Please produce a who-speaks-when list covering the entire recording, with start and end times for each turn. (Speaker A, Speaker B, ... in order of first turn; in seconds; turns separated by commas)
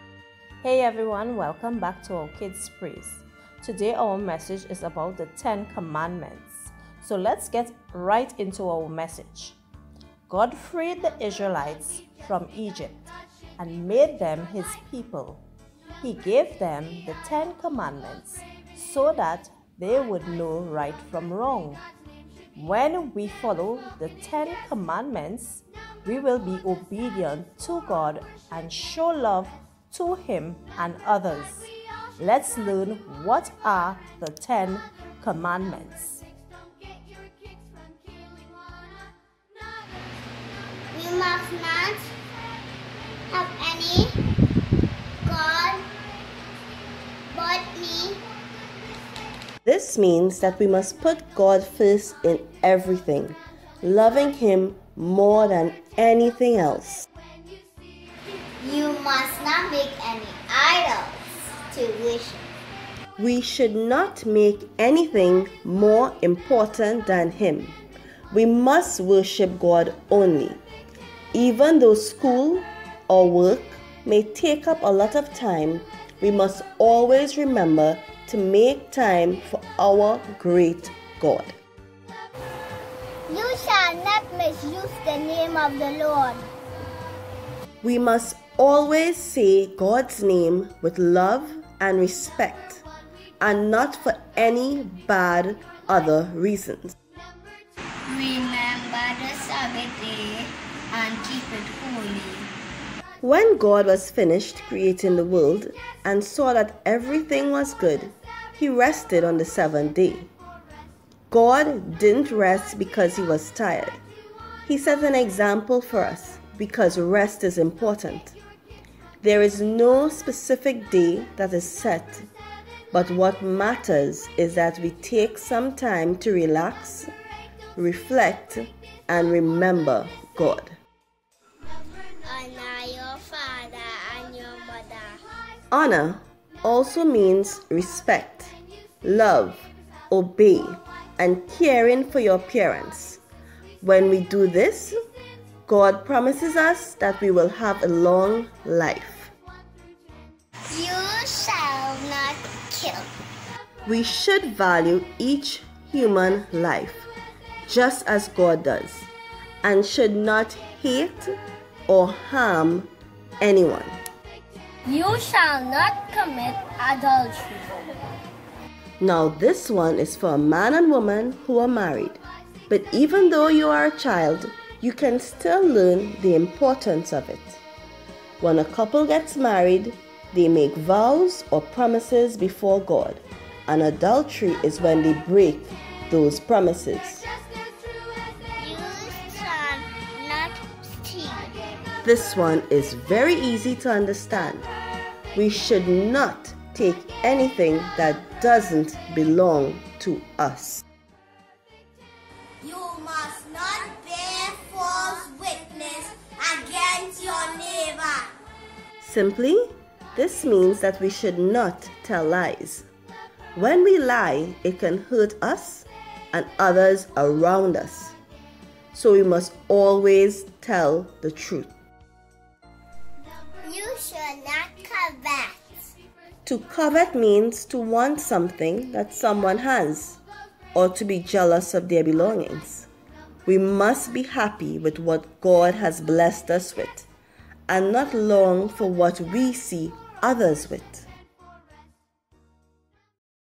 Speaker A: 0.6-9.6, Speaker A: 10.3-13.1, Speaker A: 13.6-15.4, Speaker A: 16.0-21.8, Speaker A: 22.6-36.2, Speaker B: 40.9-42.1, Speaker B: 43.3-44.1, Speaker B: 45.2-45.9, Speaker B: 47.3-48.2, Speaker C: 49.6-57.1, Speaker B: 58.6-62.5, Speaker C: 63.2-67.8, Speaker C: 68.3-70.6, Speaker C: 71.3-81.5, Speaker B: 83.3-86.5, Speaker C: 87.8-92.8, Speaker C: 93.4-96.9, Speaker B: 98.1-102.5, Speaker C: 103.2-110.3, Speaker C: 111.3-114.0, Speaker C: 114.7-118.3, Speaker C: 119.2-122.3, Speaker C: 122.9-127.1, Speaker C: 127.8-130.8, Speaker B: 132.2-135.2, Speaker C: 135.7-143.2, Speaker C: 143.8-145.0, Speaker C: 145.7-149.3, Speaker B: 150.7-153.1, Speaker C: 153.8-157.1, Speaker C: 157.7-159.1, Speaker C: 159.6-161.4, Speaker C: 161.9-162.9, Speaker C: 163.4-164.0, Speaker B: 164.8-167.7, Speaker C: 169.0-177.6, Speaker C: 178.4-187.2, Speaker B: 188.6-191.5, Speaker C: 192.0-194.7, Speaker C: 195.3-200.8, Speaker B: 202.6-208.3, Speaker C: 209.0-212.8, Speaker C: 213.5-218.1, Speaker C: 218.9-221.7, Speaker B: 223.6-225.6, Speaker C: 226.4-230.2, Speaker C: 230.7-232.9, Speaker C: 233.4-237.1, Speaker C: 237.7-241.1